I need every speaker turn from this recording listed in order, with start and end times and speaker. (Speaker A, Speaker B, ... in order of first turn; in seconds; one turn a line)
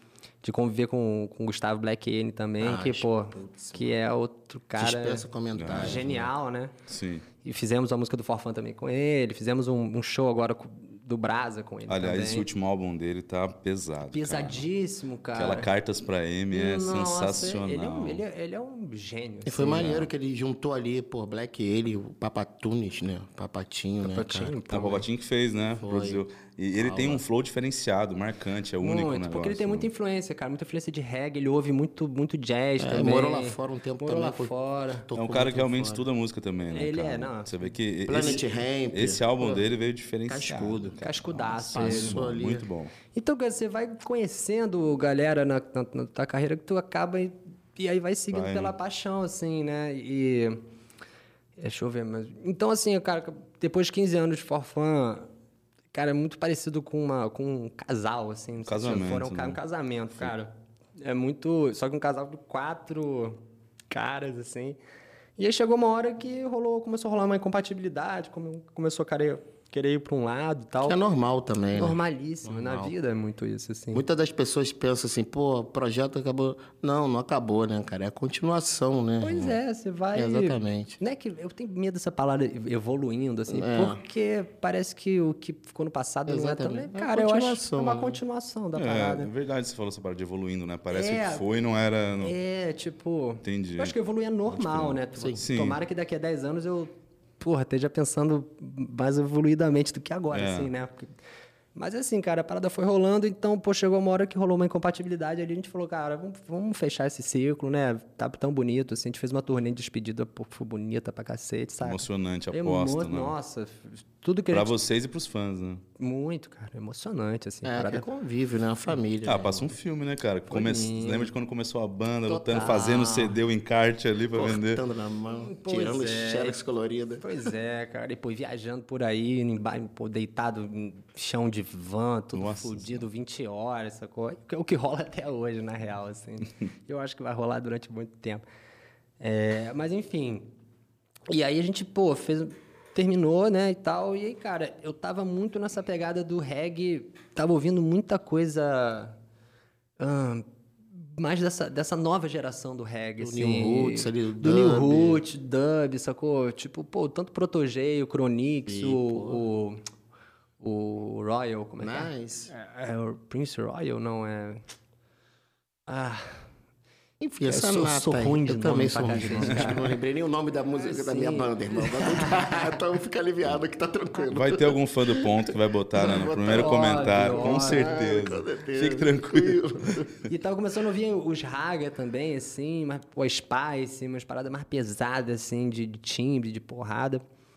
Speaker A: 0.4-6.7
Speaker B: 2.6-4.0
Speaker B: 4.8-6.3
Speaker C: 5.5-6.1
Speaker C: 6.9-7.2
Speaker A: 7.4-12.5
Speaker C: 11.9-14.7
Speaker A: 14.1-15.7
Speaker C: 15.3-18.2
Speaker A: 16.5-20.1
Speaker B: 19.4-24.5
Speaker A: 24.0-25.1
Speaker C: 24.7-29.9
Speaker B: 25.8-26.2
Speaker B: 26.8-27.2
Speaker A: 28.8-35.1
Speaker B: 32.8-36.0
Speaker C: 35.1-42.9
Speaker A: 36.7-37.6
Speaker B: 38.0-39.6
Speaker B: 40.3-42.7
Speaker A: 40.5-42.2
Speaker A: 43.1-50.6
Speaker C: 48.3-48.7
Speaker A: 51.6-55.3
Speaker A: 55.9-64.8
Speaker C: 58.6-59.6
Speaker A: 65.4-71.0
Speaker B: 70.8-72.9
Speaker A: 71.7-74.0
Speaker B: 73.9-79.6
Speaker A: 79.2-89.3
Speaker B: 80.1-81.0
Speaker B: 83.5-84.0
Speaker B: 86.3-88.2
Speaker C: 88.7-92.3
Speaker A: 90.9-91.4
Speaker A: 92.2-101.1
Speaker C: 93.4-93.9
Speaker C: 94.5-95.8
Speaker B: 95.1-95.4
Speaker C: 100.3-100.7
Speaker A: 101.7-114.7
Speaker C: 111.8-113.3
Speaker C: 114.5-115.8
Speaker A: 116.0-118.1
Speaker B: 117.6-119.7
Speaker C: 119.2-124.8
Speaker A: 120.5-121.3
Speaker B: 122.3-123.3
Speaker A: 122.5-123.4
Speaker B: 124.3-127.3
Speaker A: 125.3-126.6
Speaker A: 127.2-138.4
Speaker C: 132.3-133.1
Speaker A: 139.2-140.5
Speaker A: 141.3-149.2
Speaker A: 150.0-150.4
Speaker A: 151.0-159.8
Speaker B: 153.2-155.2
Speaker B: 158.7-159.4
Speaker A: 160.6-164.6
Speaker B: 161.8-162.5
Speaker A: 165.9-166.4
Speaker B: 167.2-180.1
Speaker A: 167.5-169.9
Speaker C: 169.4-169.8
Speaker A: 170.7-172.8
Speaker C: 174.3-180.1
Speaker A: 176.5-178.0
Speaker A: 180.3-187.2